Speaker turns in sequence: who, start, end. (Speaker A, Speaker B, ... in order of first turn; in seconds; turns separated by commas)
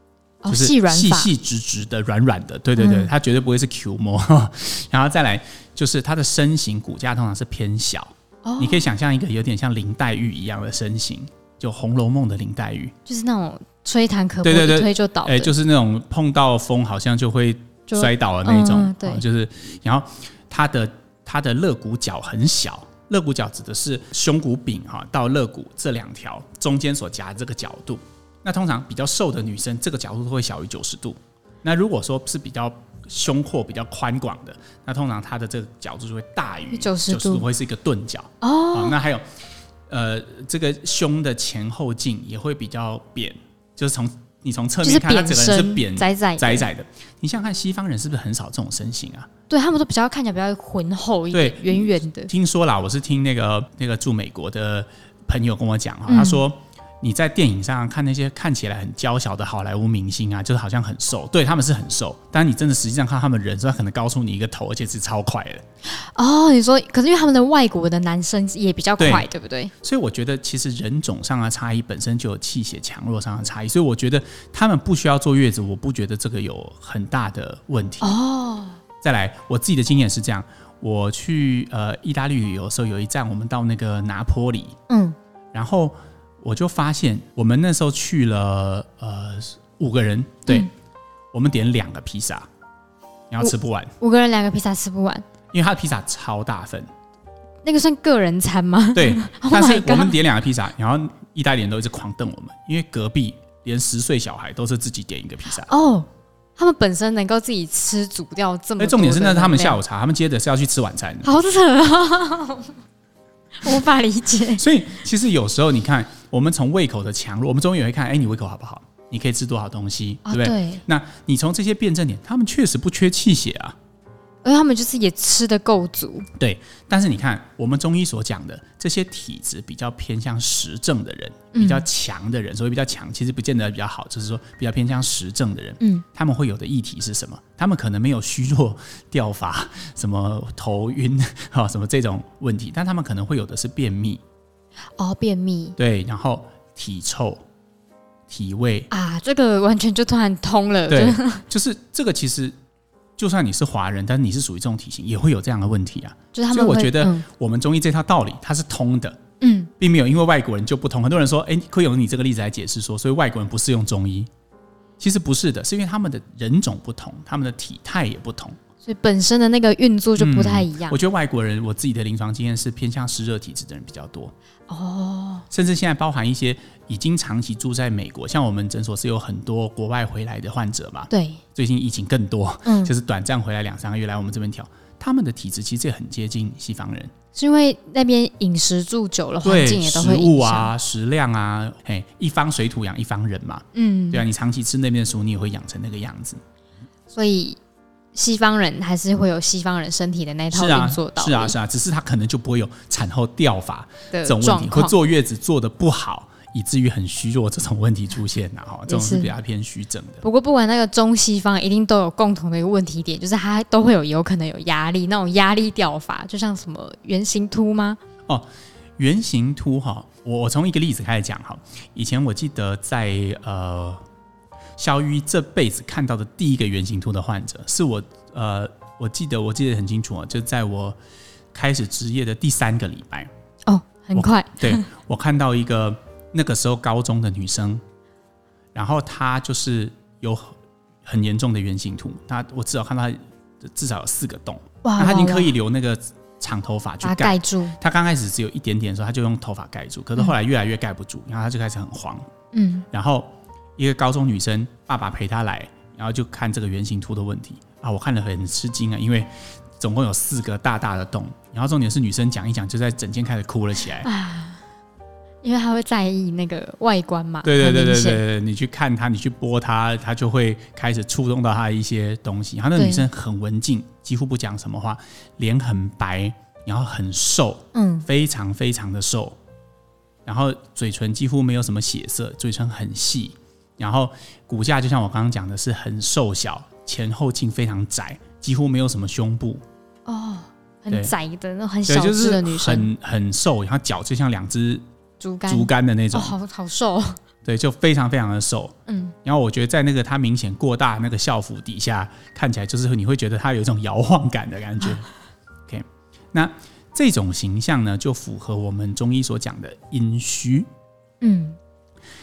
Speaker A: 0.4-1.3, Speaker B: 0.5-12.9, Speaker A: 2.8-3.1, Speaker A: 8.4-8.8, Speaker A: 13.1-15.5, Speaker B: 14.4-39.2, Speaker A: 17.9-19.2, Speaker A: 36.7-37.4, Speaker A: 38.4-39.0, Speaker B: 39.9-49.3, Speaker A: 44.8-46.7, Speaker A: 49.5-52.3, Speaker B: 51.3-65.6, Speaker A: 56.1-56.4, Speaker A: 65.8-69.7, Speaker B: 69.0-69.2, Speaker B: 69.8-78.2, Speaker A: 78.0-78.8, Speaker B: 79.0-84.8, Speaker A: 84.9-85.2, Speaker B: 85.5-90.7, Speaker B: 91.3-92.5, Speaker B: 93.3-93.9, Speaker A: 93.4-95.2, Speaker B: 95.5-96.9, Speaker A: 97.6-100.1, Speaker B: 98.9-105.7, Speaker A: 105.6-109.8, Speaker B: 108.8-111.3, Speaker A: 111.2-112.7, Speaker A: 113.6-114.6, Speaker B: 114.6-123.8, Speaker A: 120.2-120.8, Speaker A: 124.4-126.3, Speaker B: 126.4-144.2, Speaker A: 131.5-131.9, Speaker A: 135.8-136.0, Speaker A: 145.0-145.8, Speaker B: 145.8-147.4, Speaker B: 148.3-148.9, Speaker A: 148.9-151.4, Speaker B: 150.9-152.6, Speaker B: 153.2-159.2, Speaker A: 156.3-157.2, Speaker A: 159.4-159.7, Speaker B: 159.8-164.3, Speaker B: 165.0-168.6, Speaker A: 168.8-170.9, Speaker B: 170.2-174.3, Speaker A: 174.7-175.4, Speaker B: 175.5-187.1, Speaker A: 181.1-181.4, Speaker A: 182.7-182.9, Speaker A: 187.3-190.7, Speaker B: 189.4-196.4, Speaker A: 193.7-194.2, Speaker A: 197.1-197.6, Speaker A: 198.1-201.6, Speaker B: 200.5-210.2, Speaker A: 204.1-204.9, Speaker A: 208.9-209.3, Speaker A: 210.2-218.0, Speaker B: 218.3-224.0, Speaker B: 224.8-231.0, Speaker B: 231.5-233.3, Speaker A: 233.7-234.9, Speaker B: 234.1-237.8, Speaker B: 238.7-252.2, Speaker A: 244.8-245.5, Speaker A: 247.0-247.8, Speaker A: 252.5-252.8, Speaker B: 252.9-264.1, Speaker A: 264.0-264.6, Speaker A: 265.4-268.2, Speaker B: 267.4-279.4, Speaker A: 272.8-273.0, Speaker A: 277.7-278.1, Speaker B: 280.2-289.6, Speaker A: 290.1-292.9, Speaker B: 291.9-294.8, Speaker A: 295.2-297.2, Speaker B: 295.5-296.3, Speaker B: 297.4-305.1, Speaker A: 298.9-299.1, Speaker B: 305.7-310.7, Speaker A: 311.2-311.6